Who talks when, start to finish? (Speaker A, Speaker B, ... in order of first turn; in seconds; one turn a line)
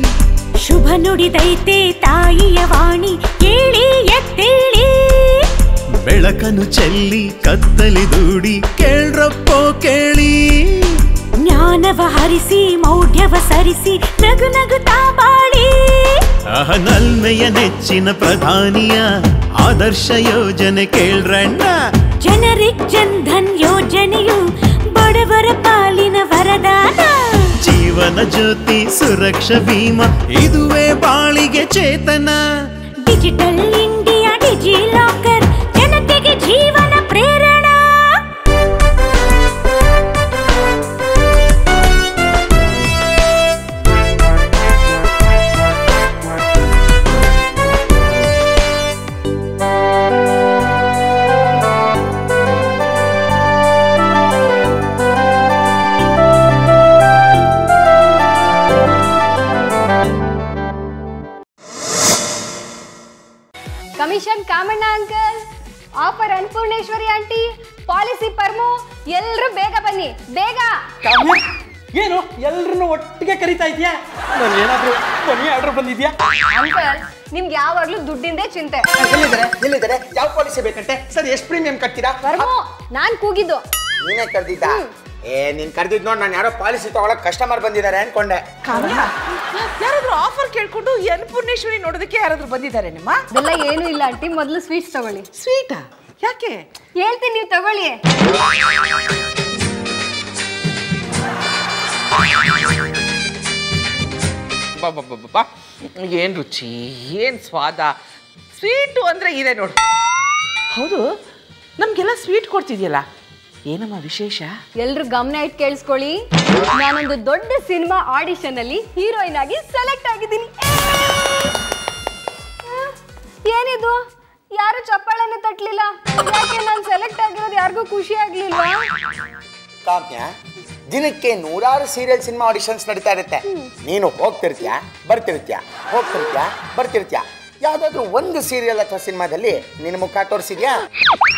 Speaker A: 0.6-5.5
Speaker B: 6.1-11.0
Speaker A: 11.4-16.3
Speaker B: 16.5-19.1
Speaker B: 19.6-21.8
Speaker A: 22.2-27.5
Speaker B: 27.6-32.4
Speaker A: 33.1-38.2
Speaker C: 64.0-65.4
Speaker C: 66.0-70.8
Speaker D: 71.0-76.1
Speaker C: 76.5-78.9
Speaker E: 79.0-82.5
Speaker C: 82.2-83.6
Speaker E: 84.0-88.5
Speaker F: 88.6-93.2
Speaker C: 93.3-95.3
Speaker F: 95.3-96.7
Speaker C: 97.0-98.0
Speaker F: 104.8-107.9
Speaker F: 108.5-109.8
Speaker F: 110.7-111.1
Speaker F: 111.8-113.0
Speaker F: 113.7-114.5
Speaker C: 114.8-116.2
Speaker C: 116.8-121.5
Speaker C: 122.7-122.9
Speaker C: 123.5-124.0
Speaker C: 124.6-128.8
Speaker E: 129.8-130.3
Speaker E: 130.9-140.8